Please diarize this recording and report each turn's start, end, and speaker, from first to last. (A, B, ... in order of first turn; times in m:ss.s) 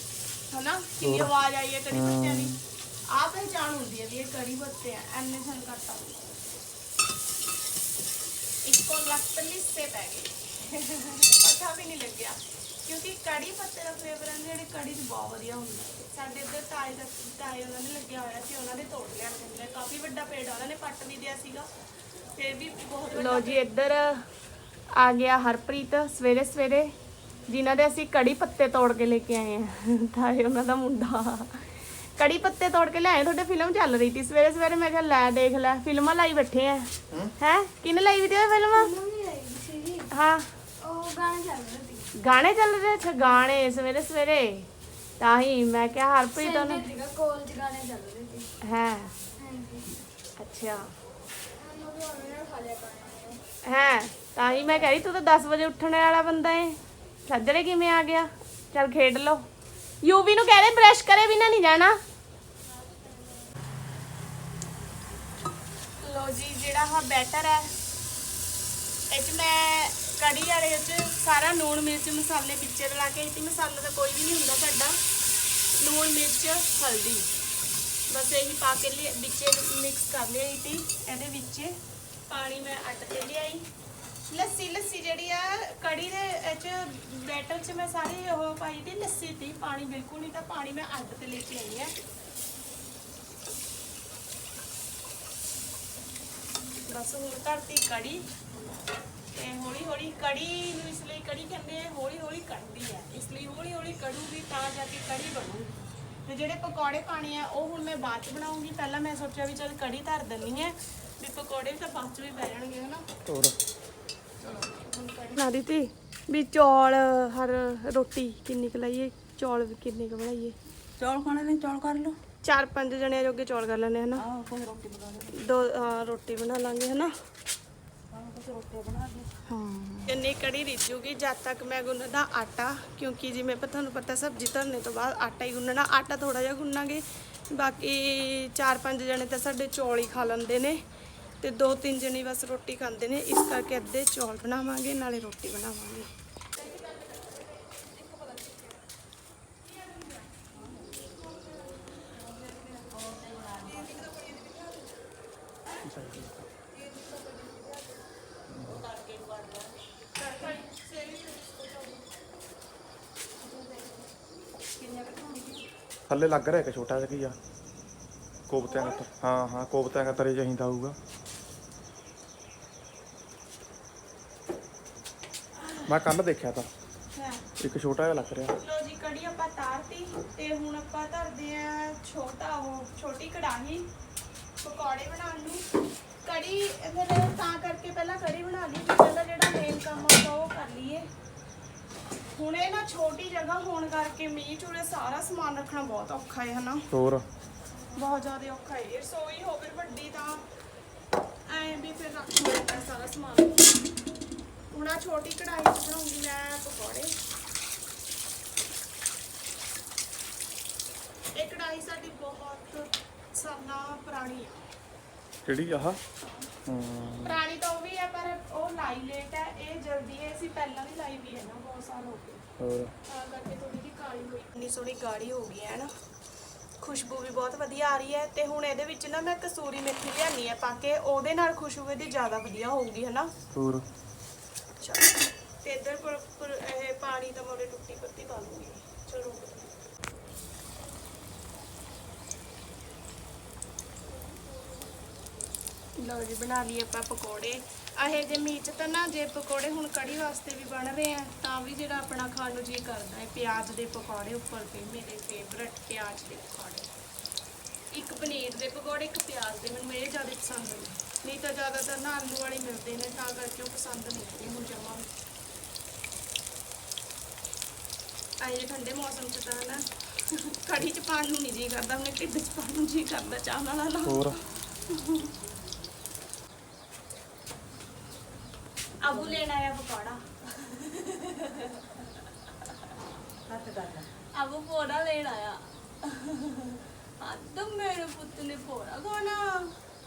0:00.5-0:02.6 A
0:01.0-0:01.3 B
0:01.9-0:02.6 B
0:03.1-0:06.4 A
0:08.6-0:21.7 A
0:22.4-0:24.2 A
0:24.9-0:26.9 A
0:27.5-0:38.9 A
0:38.7-0:40.1 C
0:40.1-0:40.5 A
0:40.8-0:42.1 C
0:42.1-0:44.7 A
0:45.2-0:46.8 A
0:46.4-0:48.5 C
0:48.6-0:49.1 A
0:49.4-0:49.9 C
0:50.4-0:50.9 A
0:51.6-0:53.4 C
0:53.6-0:59.4 A
1:00.0-1:02.0 A
1:06.0-1:07.7 A
1:09.1-1:15.0 A
1:15.8-1:17.3 A
1:18.1-1:21.8 A
1:22.3-1:23.6 A
1:24.3-1:31.9 A
1:36.9-1:38.3 A
1:39.3-1:45.7 A
1:46.2-1:53.0 A
1:53.2-1:53.6 B
1:54.4-2:00.6 A
2:01.4-2:02.0 D
2:02.4-2:04.2 A
2:04.4-2:05.1 D
2:05.3-2:07.1 A
2:08.2-2:09.8 D
2:10.0-2:20.8 A
2:21.4-2:26.1 A
2:33.1-2:33.8 D
2:33.7-2:34.4 A
2:35.8-2:36.4 B
2:37.2-2:37.6 A
2:38.5-2:38.8 B
2:38.8-2:41.9 A
2:46.1-2:47.4 B
2:48.5-2:51.0 B
2:48.7-2:49.0 A
2:55.8-2:56.7 B
2:57.2-2:57.4 A
2:57.6-2:58.5 B
2:58.6-3:03.9 A
3:04.6-3:05.6 A
3:06.2-3:11.1 A
3:12.3-3:16.9 A
3:16.9-3:17.2 B
3:18.0-3:20.4 A
3:21.5-3:23.7 A
3:24.7-3:27.2 A
3:31.3-3:34.6 A
3:35.4-3:36.0 B
3:36.7-3:37.4 B
3:37.2-3:42.4 A
3:42.6-3:42.9 B
3:43.1-3:45.9 A
3:46.8-3:53.3 A
3:53.5-3:53.8 B
3:54.8-3:55.1 A
3:55.6-3:59.7 A
4:06.0-4:16.9 A
4:17.9-4:25.1 A
4:28.4-4:29.9 A
4:30.5-4:34.4 A
4:34.0-4:34.4 B
4:39.0-4:41.9 A
4:39.1-4:39.4 D
4:43.5-4:44.1 D
4:44.3-4:49.7 A